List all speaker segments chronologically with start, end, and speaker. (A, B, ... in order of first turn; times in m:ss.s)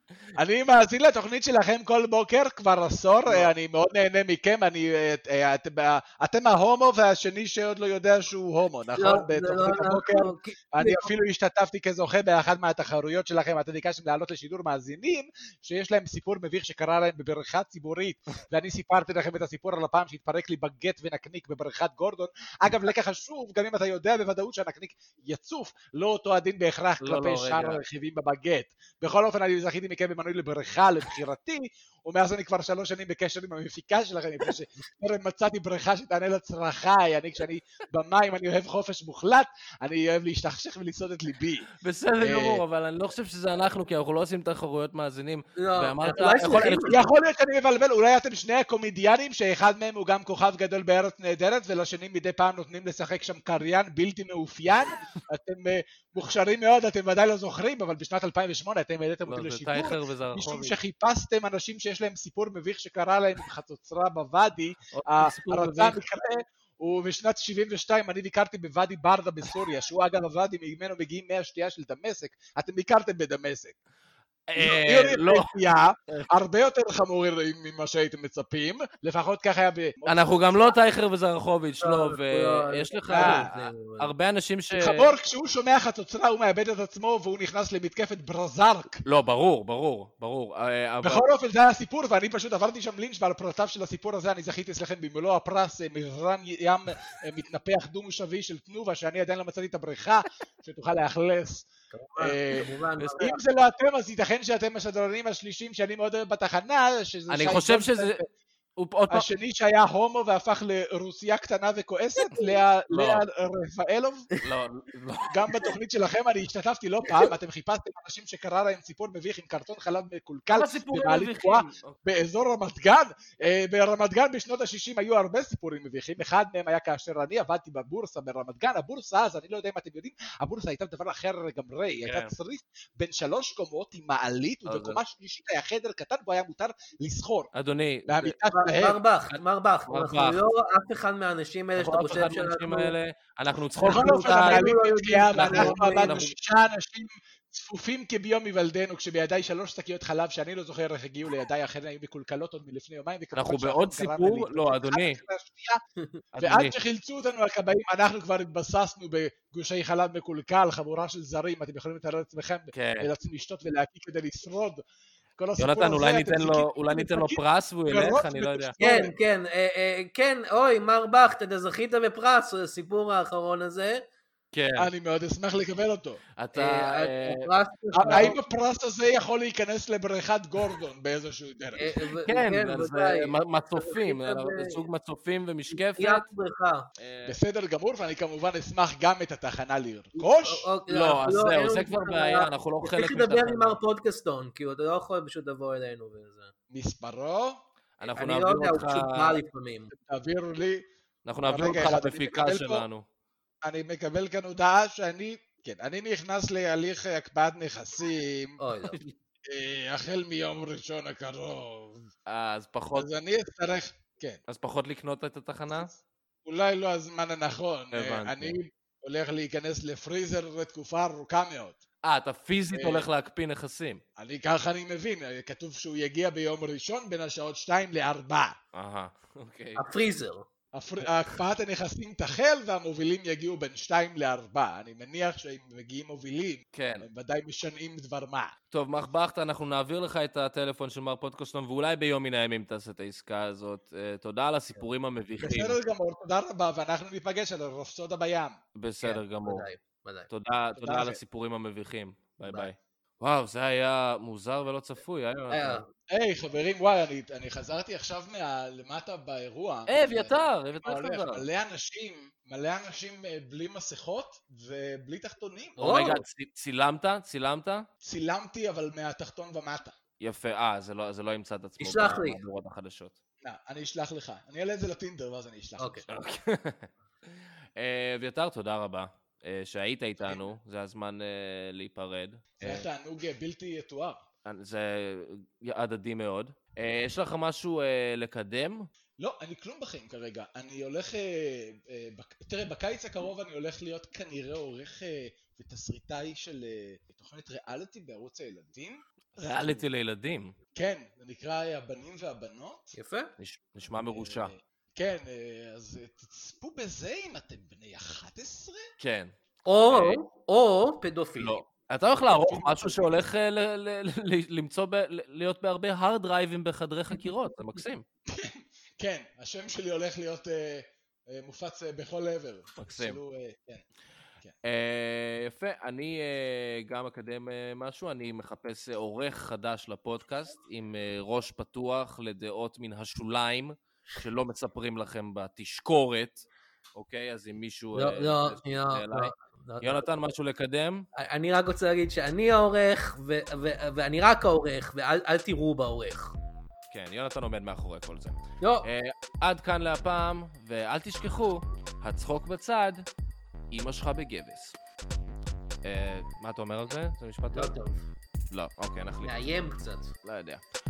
0:00.4-0:41.7 A
0:08.9-0:11.1 B
0:27.0-0:27.8 C
0:41.8-0:47.0 C
0:42.2-0:42.6 A
0:45.6-0:47.0 B
0:46.7-1:13.7 A
0:59.3-1:00.8 C
1:04.9-1:06.0 C
1:14.5-1:15.5 C
1:14.6-1:20.7 A
1:20.0-1:25.1 C
1:21.8-1:24.1 B
1:23.1-1:23.5 A
1:24.8-1:29.0 A
1:29.0-1:31.2 C
1:31.0-1:41.7 A
1:41.9-1:43.4 B
1:42.2-1:48.2 A
1:47.3-1:48.2 C
1:48.8-1:49.3 C
1:49.1-1:54.3 A
1:52.9-1:53.2 C
1:54.4-1:55.6 C
1:55.3-2:17.5 A
2:00.5-2:01.9 C
2:12.0-2:12.3 C
2:14.6-2:15.0 C
2:17.5-2:18.4 C
2:18.1-2:19.0 A
2:18.5-2:22.9 B
2:19.3-2:20.4 C
2:21.8-2:24.7 C
2:23.8-2:35.8 A
2:23.8-2:26.3 B
2:25.3-2:26.3 C
2:33.3-2:35.2 C
2:36.4-2:36.8 C
2:36.4-2:44.8 A
2:42.7-2:43.1 C
2:45.4-2:49.2 A
2:45.6-2:48.8 C
2:48.8-2:54.0 B
2:54.5-2:54.9 C
2:54.8-2:56.2 A
2:56.4-2:57.5 C
2:56.5-2:58.4 B
2:57.9-3:02.0 A
2:58.0-2:58.3 C
3:01.8-3:04.8 B
3:02.2-3:06.3 C
3:05.7-3:06.9 B
3:07.0-3:07.4 C
3:07.2-3:10.7 A
3:10.2-3:16.5 B
3:10.9-3:13.8 C
3:16.7-3:17.6 A
3:18.0-3:19.4 C
3:18.1-3:19.9 B
3:19.9-3:20.8 A
3:21.2-3:23.0 C
3:21.5-3:22.8 A
3:23.6-3:28.6 A
3:28.6-3:29.0 B
3:29.5-3:32.1 A
3:32.3-3:33.1 C
3:32.9-3:34.4 A
3:34.5-3:35.9 C
3:36.4-3:41.8 A
3:37.9-3:38.6 C
3:42.0-3:44.0 C
3:42.7-3:43.1 A
3:44.2-3:48.6 A
3:48.7-3:49.8 C
3:49.8-3:50.5 B
3:50.7-3:58.5 A
3:56.7-3:57.1 C
3:58.7-4:05.8 C
4:05.4-4:08.6 A
4:08.8-4:09.7 C
4:09.0-4:10.3 B
4:10.3-4:15.8 C
4:10.8-4:11.2 A
4:12.4-4:12.7 B
4:15.5-4:15.9 B
4:16.1-4:25.8 A
4:19.9-4:21.5 C
4:25.8-4:26.2 B
4:25.8-4:27.9 C
4:28.0-4:29.9 A
4:30.2-4:33.2 C
4:31.8-4:32.4 B
4:33.4-4:36.1 A
4:35.8-4:36.0 B
4:36.1-4:42.8 C
4:42.6-4:44.2 A
4:44.4-4:48.9 C
4:49.2-4:59.9 A
4:59.4-5:00.5 C
5:00.8-5:02.9 A
5:02.9-5:03.3 B
5:03.4-5:04.5 C
5:03.9-5:08.9 A
5:09.0-5:09.3 C
5:09.6-5:11.6 B
5:09.9-5:10.2 C
5:11.4-5:18.0 C
5:12.5-5:12.9 A
5:18.3-5:23.8 A
5:22.8-5:23.2 C
5:24.6-5:41.1 C
5:37.9-5:40.0 B
5:41.1-5:46.3 B
5:46.9-5:53.1 C
5:48.6-5:48.9 B
5:53.7-5:54.8 C
5:55.8-5:57.7 C
5:57.5-5:58.0 B
5:58.5-5:59.5 C
5:59.2-6:00.1 B
6:00.2-6:00.6 C